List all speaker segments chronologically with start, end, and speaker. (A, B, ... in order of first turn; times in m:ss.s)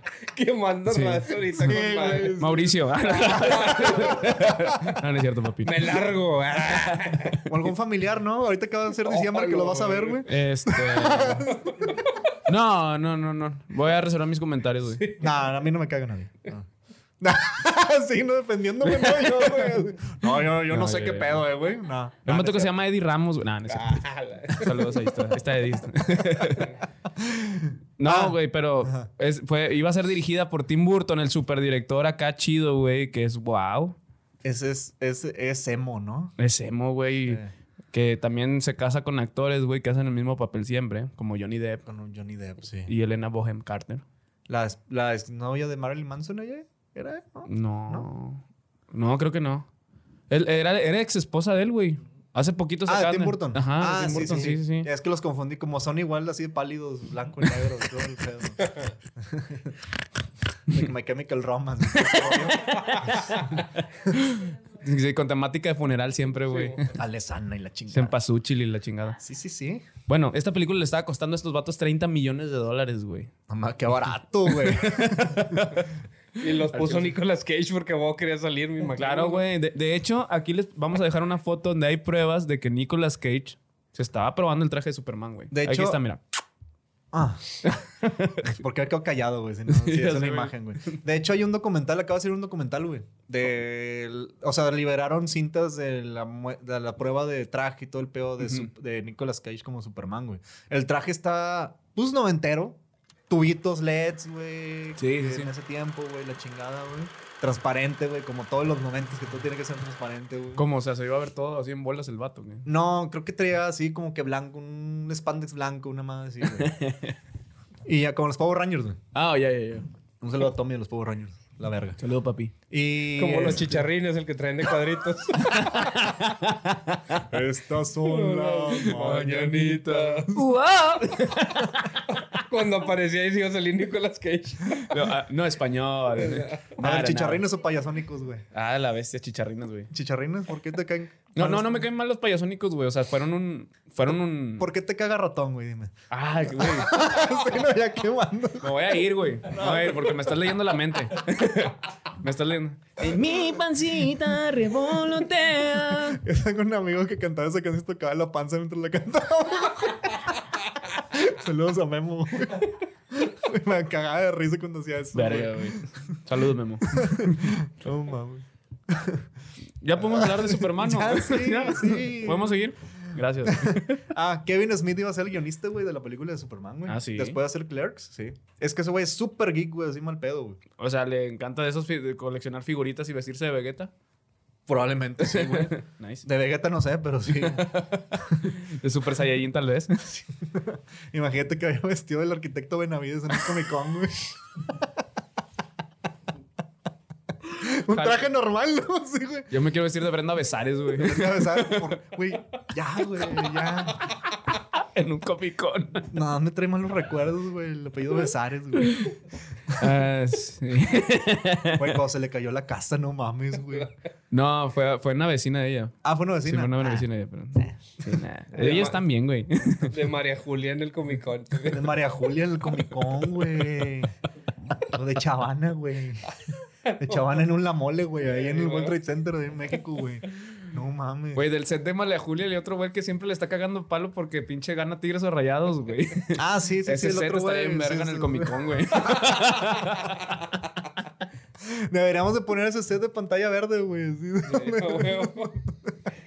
0:00.3-0:02.4 A
0:00.9-0:05.9 B
0:01.6-0:04.4 C
0:03.2-0:04.4 A
0:05.6-0:07.4 A
0:06.7-0:07.4 B
0:07.4-0:11.9 C
0:09.0-0:10.3 A
0:10.2-0:11.5 B
0:12.4-0:15.1 B
0:15.0-0:15.3 A
0:15.2-0:16.7 C
0:17.2-0:22.7 C
0:20.7-0:21.4 B
0:22.3-0:26.8 B
0:23.7-0:24.9 A
0:27.1-0:29.1 C
0:28.0-0:34.0 B
0:34.4-0:36.4 C
0:36.4-0:41.8 B
0:41.9-0:42.9 C
0:42.9-0:44.0 B
0:44.5-0:48.1 C
0:47.4-0:49.7 B
0:50.3-0:54.9 B
0:52.9-0:59.8 C
1:00.7-1:03.2 C
1:02.0-1:06.9 B
1:06.5-1:06.8 A
1:07.0-1:08.2 C
1:07.9-1:09.2 B
1:09.2-1:09.9 C
1:10.1-1:13.3 B
1:13.5-1:15.8 C
1:14.4-1:15.9 B
1:16.4-1:19.4 A
1:16.7-1:17.2 B
1:19.0-1:26.2 B
1:25.5-1:26.0 C
1:27.1-1:27.8 C
1:27.6-1:28.5 B
1:28.4-1:50.6 C
1:29.7-1:31.0 B
1:38.4-1:38.7 B
1:45.0-1:45.5 B
1:50.6-1:52.7 B
1:52.7-1:56.7 C
1:56.5-1:57.2 B
1:57.9-1:59.0 C
1:59.1-1:59.9 B
2:00.2-2:02.0 C
2:02.0-2:02.5 B
2:02.7-2:03.8 C
2:03.2-2:05.7 A
2:05.4-2:07.3 B
2:07.2-2:09.3 C
2:08.0-2:10.3 A
2:08.9-2:12.4 B
2:12.2-2:15.1 A
2:14.8-2:17.4 B
2:16.2-2:16.7 A
2:16.8-2:18.4 C
2:18.5-2:19.9 B
2:19.9-2:21.9 C
2:21.4-2:24.7 B
2:24.6-2:25.9 C
2:26.1-2:27.0 B
2:26.5-2:30.4 C
2:28.6-2:36.2 B
2:35.9-2:46.1 C
2:45.1-2:47.6 B
2:46.9-2:49.3 C
2:49.8-2:54.0 B
2:50.0-2:52.6 C
2:53.4-3:00.6 C
2:56.9-2:57.4 B
3:00.8-3:03.9 B
3:04.7-3:08.5 C
3:05.2-3:06.3 B
3:07.5-3:10.0 B
3:10.0-3:14.9 C
3:17.4-3:19.5 C
3:17.9-3:18.2 B
3:19.5-3:22.0 B
3:21.0-3:24.0 C
3:24.5-3:26.1 B
3:26.1-3:29.1 C
3:29.7-3:32.0 B
3:31.7-3:33.9 C
3:34.3-3:40.0 B
3:36.0-3:37.1 C
3:38.5-3:39.0 C
3:38.6-3:39.0 A
3:39.9-3:42.0 A
3:41.7-3:44.1 C
3:44.8-3:46.4 C
3:46.9-3:47.3 A
3:47.0-3:51.4 C
3:48.3-3:49.0 A
3:51.4-4:00.5 B
3:56.3-3:59.7 C
4:01.6-4:05.9 C
4:04.4-4:05.6 A